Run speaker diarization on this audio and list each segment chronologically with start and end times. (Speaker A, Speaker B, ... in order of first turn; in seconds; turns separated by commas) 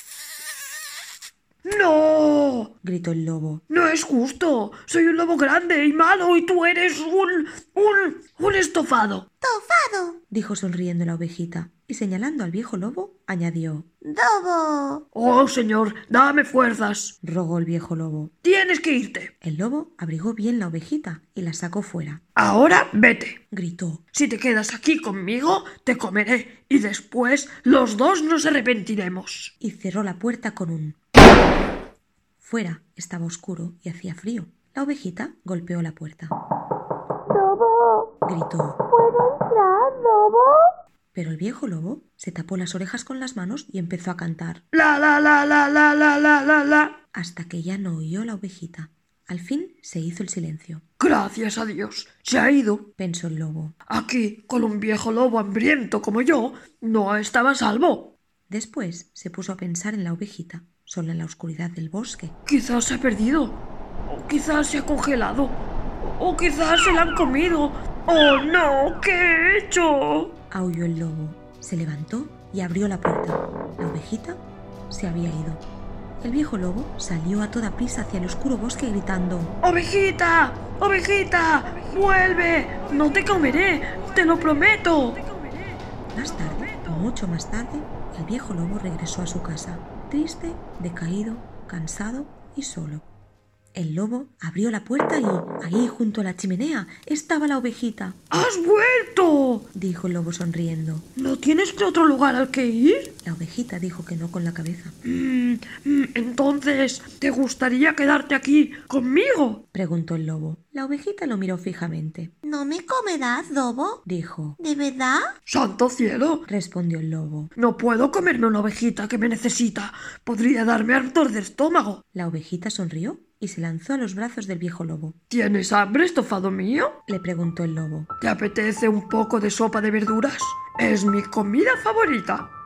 Speaker A: 1.6-2.7, Speaker B: 2.8-3.6, Speaker A: 3.7-9.3, Speaker C: 9.4-10.2, Speaker B: 10.3-13.9, Speaker C: 14.0-15.0, Speaker A: 15.1-17.1, Speaker B: 17.2-18.3, Speaker A: 18.4-19.3, Speaker B: 19.4-22.2, Speaker A: 22.4-23.4, Speaker B: 23.5-24.0, Speaker A: 24.1-29.5, Speaker B: 29.6-31.0, Speaker B: 32.4-36.4, Speaker C: 37.3-38.1, Speaker B: 38.2-38.8, Speaker C: 38.9-40.6, Speaker B: 41.1-44.6, Speaker A: 44.7-47.0, Speaker B: 47.1-50.8, Speaker A: 51.0-52.9, Speaker B: 53.0-53.8, Speaker A: 53.9-58.1, Speaker B: 58.5-62.4, Speaker A: 62.5-70.3, Speaker B: 70.5-75.6, Speaker B: 76.2-79.5, Speaker A: 79.6-87.1, Speaker B: 86.2-93.0, Speaker B: 93.7-98.2, Speaker A: 98.3-99.7, Speaker B: 99.7-101.1, Speaker A: 101.1-103.2, Speaker B: 103.2-105.0, Speaker A: 105.0-109.6, Speaker B: 109.7-112.4, Speaker C: 112.4-114.0, Speaker B: 114.0-114.6, Speaker C: 114.6-115.3, Speaker A: 115.5-116.5, Speaker B: 116.5-117.5, Speaker A: 117.5-122.0, Speaker B: 122.1-125.2, Speaker A: 125.3-127.0, Speaker B: 127.1-128.1, Speaker A: 128.2-132.5